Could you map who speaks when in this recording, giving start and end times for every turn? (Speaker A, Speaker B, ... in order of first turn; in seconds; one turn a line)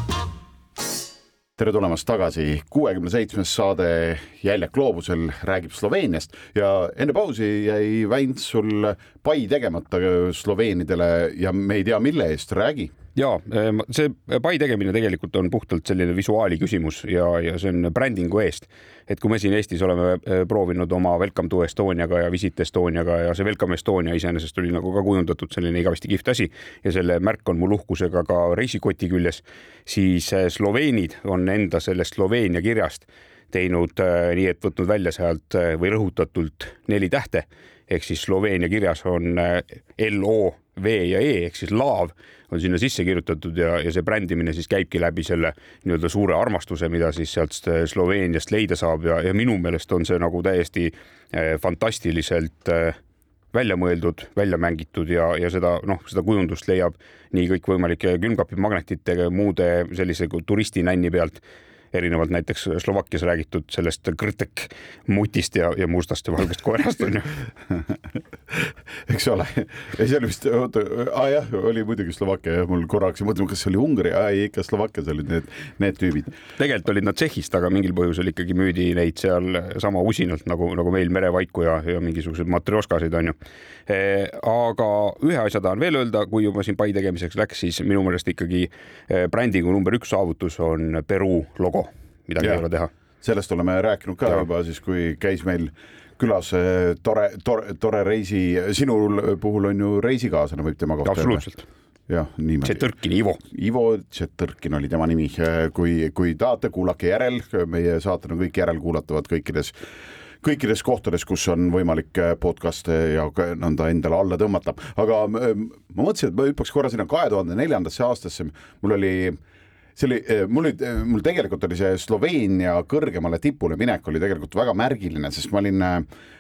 Speaker A: 1.6-12.9
Speaker B: 13.2-53.0
Speaker B: 53.5-61.4
Speaker B: 61.9-67.3
Speaker A: 68.5-76.3
Speaker B: 76.6-83.3
Speaker B: 83.9-92.9
Speaker A: 93.2-101.4
Speaker B: 101.0-101.7
Speaker A: 102.1-102.8
Speaker B: 102.6-103.4
Speaker A: 103.4-109.7
Speaker A: 110.4-119.4
Speaker A: 120.0-126.0